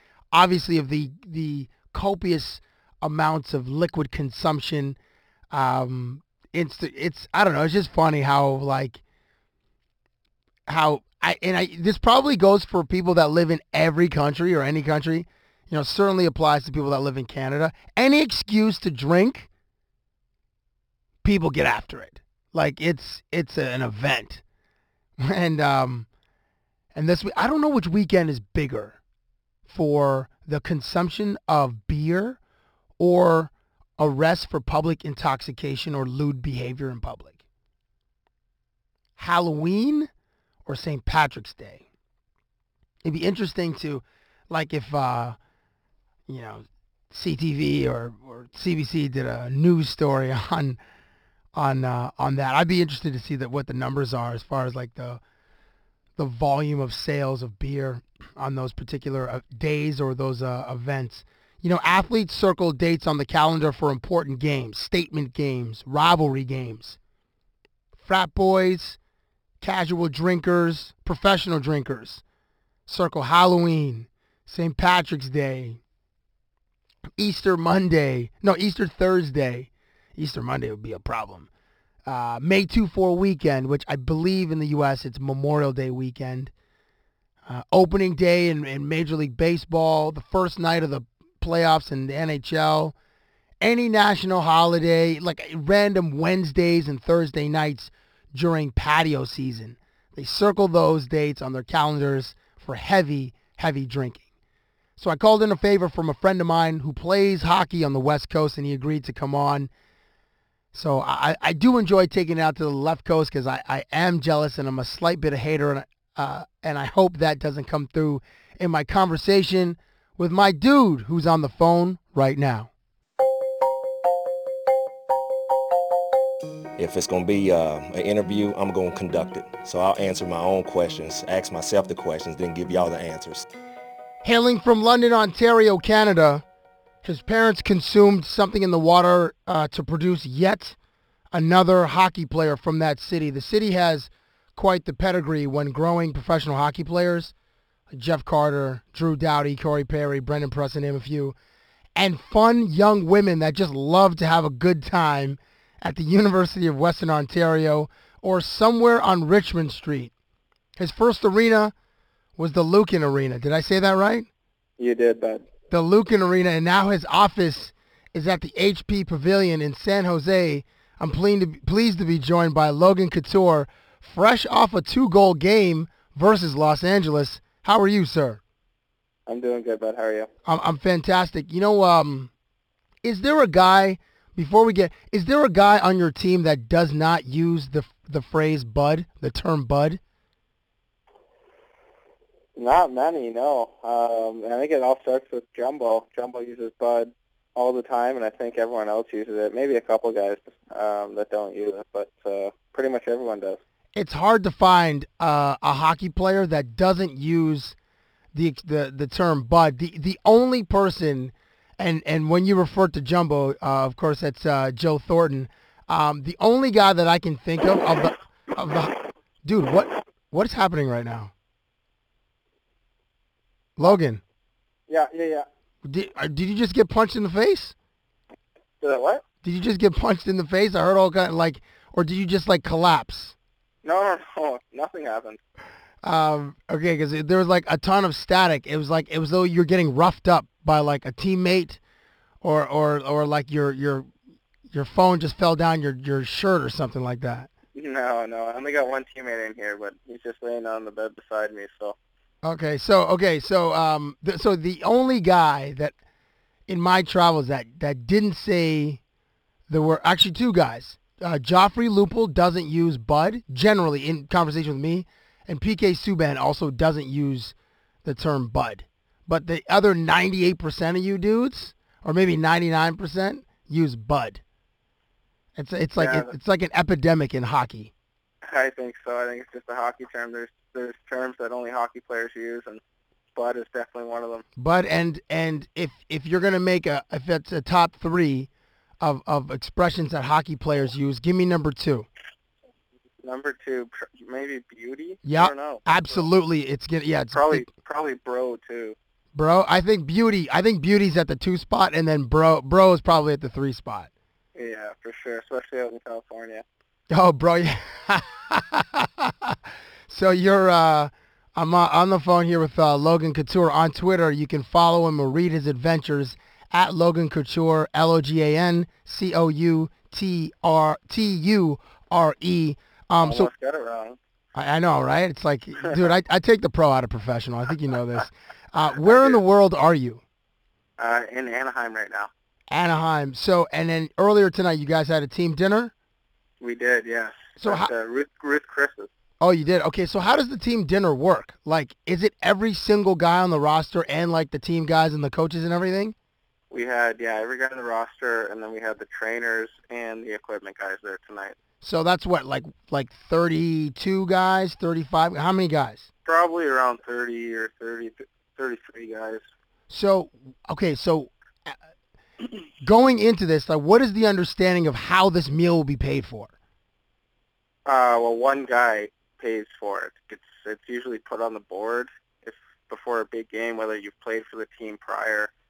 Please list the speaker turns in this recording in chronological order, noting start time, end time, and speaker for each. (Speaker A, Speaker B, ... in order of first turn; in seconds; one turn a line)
Speaker A: 0.3-5.0
Speaker A: 5.5-9.0
Speaker A: 10.7-19.5
Speaker A: 21.2-24.4
Speaker A: 25.2-26.1
Speaker A: 26.9-29.0
Speaker A: 29.7-32.4
Speaker A: 33.0-37.4
Speaker A: 39.2-40.1
Speaker A: 40.7-41.8
Speaker A: 43.0-45.4
Speaker A: 46.3-50.8
Speaker A: 51.5-55.2
Speaker A: 56.2-67.0
Speaker A: 68.0-69.0
Speaker A: 69.6-72.2
Speaker A: 72.9-75.8
Speaker A: 77.2-81.5
Speaker A: 82.1-86.5
Speaker A: 87.5-92.9
Speaker A: 93.6-104.2
Speaker A: 105.0-109.7
Speaker A: 110.7-122.7
Speaker B: 126.8-133.5
Speaker A: 134.2-136.4
Speaker A: 137.0-140.8
Speaker A: 141.3-147.3
Speaker A: 147.9-151.3
Speaker A: 152.0-160.1
Speaker A: 160.8-161.7
Speaker A: 162.4-164.3
Speaker C: 164.8-165.4
Speaker A: 165.7-178.4
Speaker C: 179.3-180.3
Speaker A: 180.4-182.3
Speaker A: 183.0-190.0
Speaker C: 192.6-203.6
Speaker A: 204.0-207.8
Speaker A: 208.3-218.9
Speaker A: 219.4-221.3
Speaker A: 223.8-224.2
Speaker C: 224.9-225.5
Speaker A: 225.8-227.8
Speaker C: 228.8-229.2
Speaker A: 229.4-233.3
Speaker C: 233.8-235.4
Speaker A: 236.0-241.8
Speaker A: 242.4-244.1
Speaker A: 244.7-247.5
Speaker C: 247.8-252.0
Speaker A: 252.4-255.9
Speaker A: 256.7-259.0
Speaker A: 259.7-267.5
Speaker A: 268.1-274.4
Speaker A: 275.6-277.9
Speaker C: 276.0-276.3
Speaker C: 278.5-282.8
Speaker C: 283.4-284.4
Speaker A: 284.6-288.5
Speaker A: 289.0-292.1
Speaker C: 293.2-296.3
Speaker A: 295.2-297.7
Speaker C: 297.3-299.0
Speaker A: 299.3-304.1
Speaker C: 304.6-306.6
Speaker A: 307.1-323.5
Speaker C: 323.2-324.2
Speaker A: 324.5-330.2
Speaker C: 329.0-329.4
Speaker C: 331.0-332.3
Speaker A: 332.7-335.9
Speaker C: 336.6-339.1
Speaker A: 337.6-337.9
Speaker A: 339.4-346.1
Speaker C: 346.7-351.6
Speaker A: 351.8-356.1
Speaker C: 356.3-359.4
Speaker A: 359.9-361.8
Speaker A: 362.8-366.5
Speaker C: 367.9-375.5